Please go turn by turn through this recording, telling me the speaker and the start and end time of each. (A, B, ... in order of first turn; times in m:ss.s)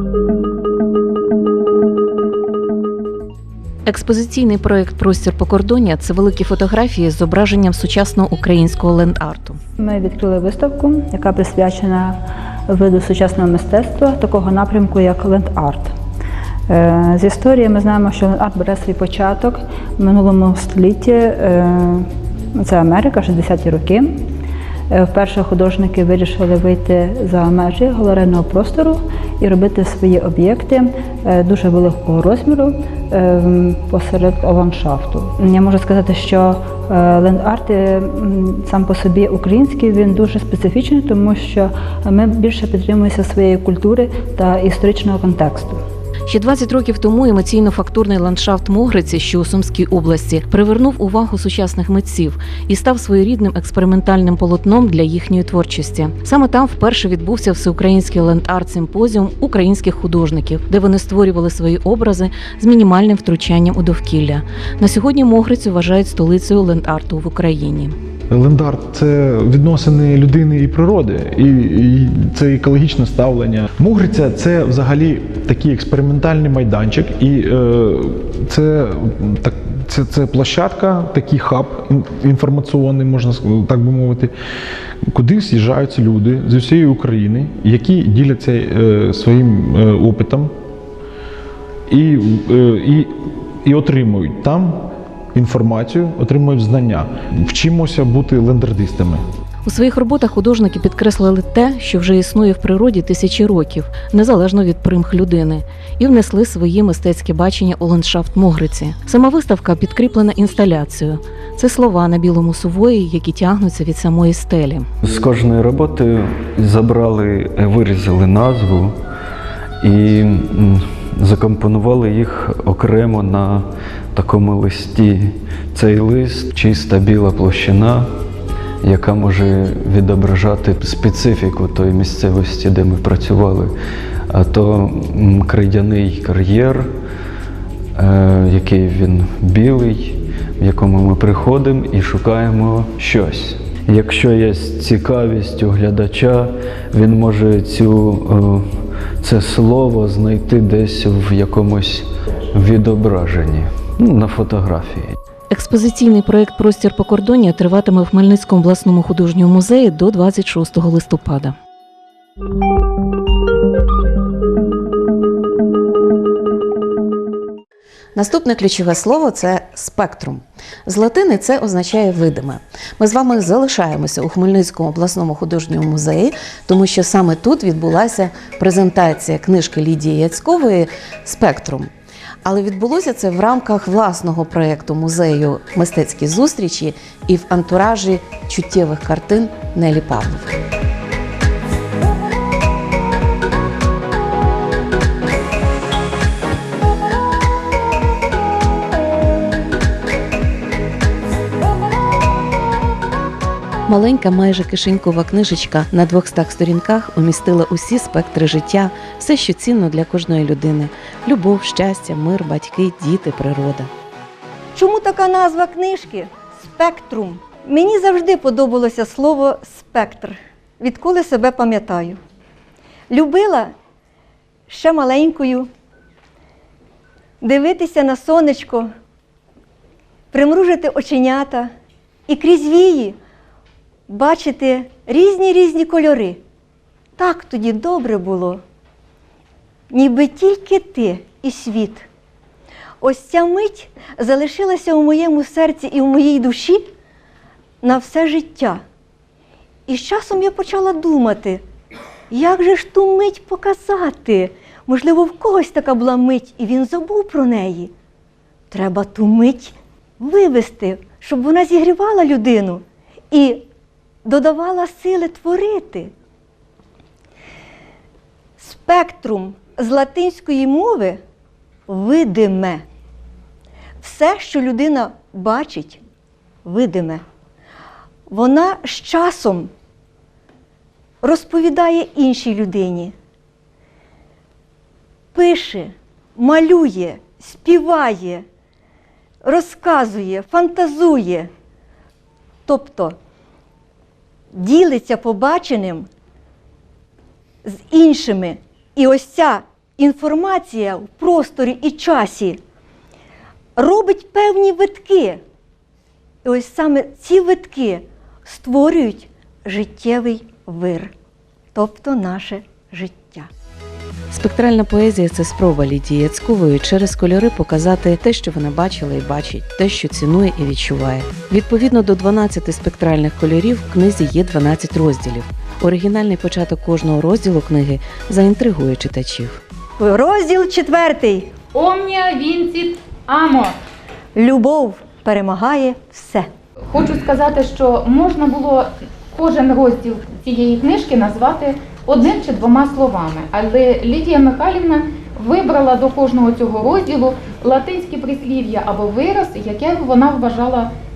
0:03.8-0:09.6 A
0:09.8-0:16.0 B
0:16.7-0:24.3 B
0:24.9-0:45.8 B
0:46.3-1:08.0 A
1:08.3-1:24.3 C
1:25.1-1:30.5 C
1:31.9-1:39.2 C
1:39.6-1:54.9 A
1:55.0-1:59.0 D
1:59.8-2:08.1 D
2:08.8-2:13.7 D
2:14.3-2:16.9 D
2:17.9-2:35.2 D
2:35.5-2:41.6 A
2:48.1-3:01.9 A
3:02.4-3:10.6 A
3:23.9-3:33.9 A
3:34.7-3:42.2 E
3:43.1-3:43.7 E
3:44.7-3:45.7 E
3:47.4-3:48.9 E
3:50.3-3:51.7 E
3:52.3-3:53.2 E
3:54.1-3:56.4 E
3:57.2-3:58.6 E
3:59.9-4:02.1 E
4:03.0-4:06.9 E
4:07.8-4:08.8 E
4:09.9-4:11.6 E
4:12.3-4:17.9 E
4:18.7-4:23.6 E
4:24.2-4:26.1 E
4:28.6-4:31.2 E
4:31.9-4:32.8 E
4:34.0-4:36.0 E
4:36.6-4:37.2 E
4:38.3-4:39.7 E
4:41.2-4:43.1 E
4:45.3-4:48.4 E
4:49.4-4:51.5 E
4:52.7-4:53.2 E
4:54.5-4:56.1 E
4:57.6-5:02.6 E
5:03.8-5:05.4 E
5:06.4-5:11.1 E
5:11.7-5:13.5 E
5:14.3-5:29.6 A
5:30.0-5:31.5 E
5:31.7-5:33.8 F
5:34.4-5:36.5 E
5:36.9-5:50.9 F